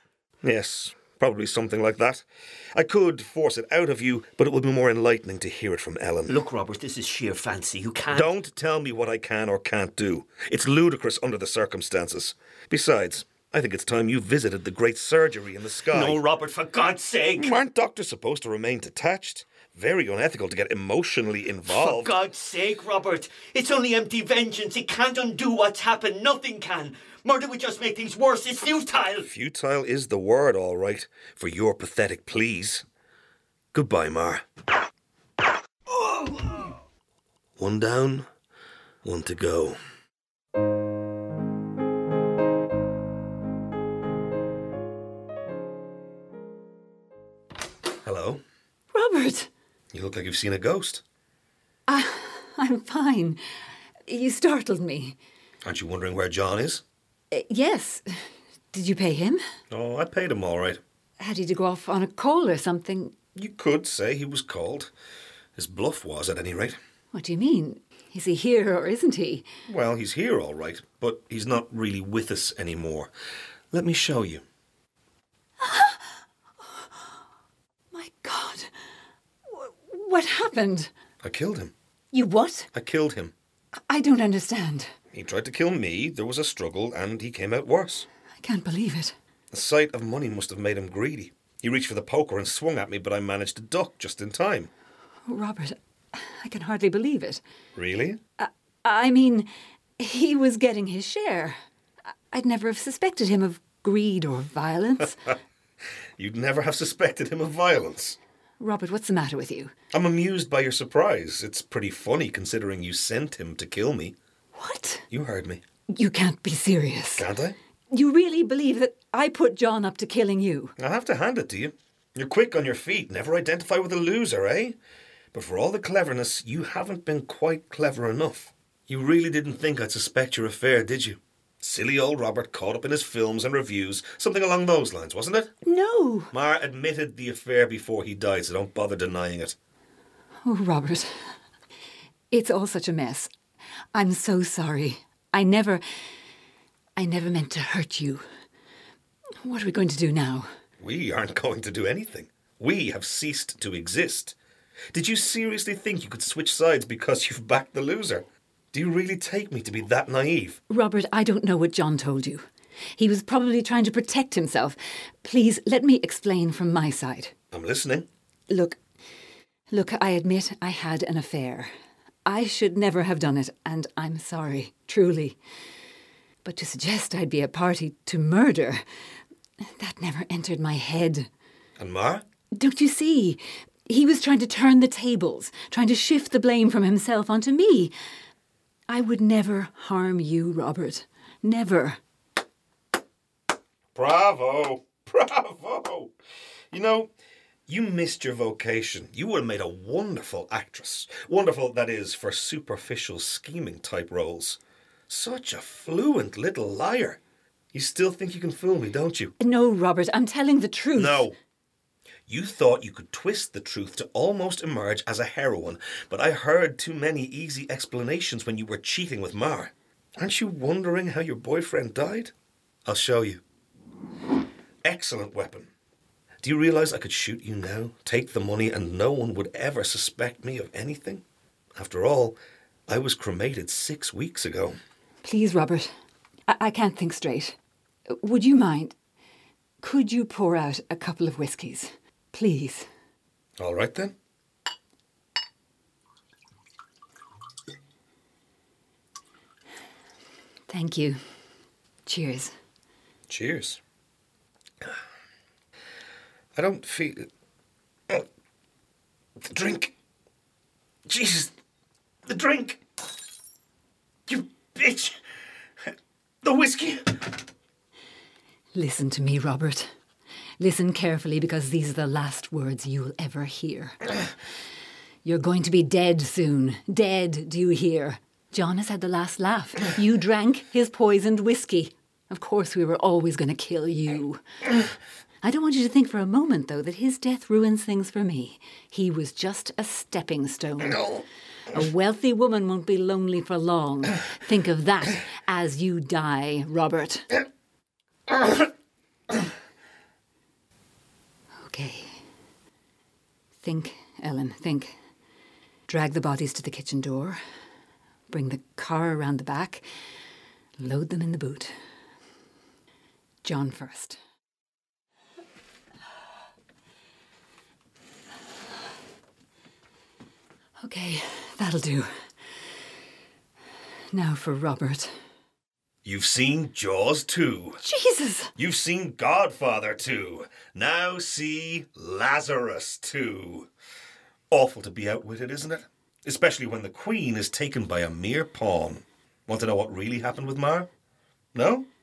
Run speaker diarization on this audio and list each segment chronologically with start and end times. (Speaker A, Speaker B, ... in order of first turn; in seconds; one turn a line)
Speaker A: 0.4-6.4
Speaker B: 6.3-8.3
Speaker A: 8.1-16.2
Speaker B: 15.9-17.5
Speaker A: 17.4-22.1
Speaker B: 21.7-29.3
Speaker A: 29.3-32.8
Speaker A: 33.7-34.4
Speaker A: 37.6-38.3
Speaker A: 39.0-39.8
Speaker A: 48.0-48.4
Speaker C: 48.9-49.5
Speaker A: 49.9-51.0
Speaker C: 51.9-53.4
Speaker C: 54.1-55.2
Speaker A: 55.6-56.8
Speaker C: 57.3-58.1
Speaker C: 58.7-59.4
Speaker A: 59.7-60.8
Speaker C: 61.2-63.1
Speaker A: 63.3-64.9
Speaker A: 65.5-66.8
Speaker C: 67.1-69.5
Speaker A: 69.7-73.1
Speaker A: 73.7-74.4
Speaker C: 75.6-76.1
Speaker C: 76.6-77.0
Speaker C: 77.9-78.7
Speaker C: 79.5-80.9
Speaker A: 81.2-81.7
Speaker C: 82.1-82.7
Speaker A: 82.7-83.3
Speaker C: 83.9-84.9
Speaker A: 85.1-88.1
Speaker C: 88.4-89.1
Speaker A: 89.5-94.7
Speaker C: 95.3-97.4
Speaker A: 97.8-98.2
Speaker C: 98.4-101.6
Speaker C: 102.3-105.3
Speaker A: 106.2-108.2
Speaker C: 108.6-109.7
Speaker A: 109.9-114.2
Speaker C: 114.5-115.0
Speaker A: 115.1-115.6
Speaker C: 115.9-117.3
Speaker A: 117.2-117.6
Speaker C: 117.9-120.7
Speaker A: 120.8-124.8
Speaker A: 125.3-135.5
Speaker C: 135.6-136.3
Speaker A: 136.3-139.6
Speaker C: 140.4-141.1
Speaker C: 142.3-143.3
Speaker C: 143.9-145.8
Speaker C: 146.9-148.2
Speaker C: 149.4-150.5
Speaker A: 150.8-154.3
Speaker A: 154.9-160.6
Speaker C: 160.7-162.4
Speaker C: 163.0-167.3
Speaker A: 167.5-168.1
Speaker C: 168.5-168.8
Speaker C: 169.7-171.7
Speaker C: 172.2-175.4
Speaker C: 176.4-178.8
Speaker C: 179.8-181.3
Speaker A: 181.8-182.2
Speaker C: 182.5-187.9
Speaker C: 188.9-192.0
Speaker A: 193.9-196.1
Speaker A: 196.7-197.1
Speaker A: 197.7-207.2
Speaker A: 207.7-209.3
Speaker C: 209.4-211.3
Speaker A: 210.9-211.3
Speaker A: 212.3-222.3
Speaker A: 222.8-223.4
Speaker A: 224.8-225.7
Speaker A: 226.4-231.2
Speaker A: 231.8-234.8
Speaker C: 235.2-235.9
Speaker C: 236.5-237.6
Speaker C: 238.1-238.9
Speaker C: 239.8-242.9
Speaker A: 243.6-244.1
Speaker C: 250.7-251.2
Speaker C: 252.1-252.5
Speaker A: 253.3-253.8
Speaker A: 256.5-257.3
Speaker A: 259.4-259.9
Speaker A: 261.1-261.5
Speaker A: 262.2-262.8
Speaker A: 264.3-265.2
Speaker A: 266.4-267.4
Speaker C: 268.7-269.9
Speaker C: 270.6-274.1
Speaker C: 275.2-284.4
Speaker C: 285.4-297.4
Speaker C: 301.6-302.1
Speaker C: 303.6-304.9
Speaker C: 305.9-307.4
Speaker C: 308.3-309.8
Speaker C: 310.8-311.7
Speaker C: 313.4-314.2
Speaker C: 320.8-322.1
Speaker C: 324.1-325.1
Speaker A: 326.0-327.8
Speaker C: 327.8-328.5
Speaker A: 328.6-333.7
Speaker A: 334.5-340.9
Speaker A: 341.5-341.9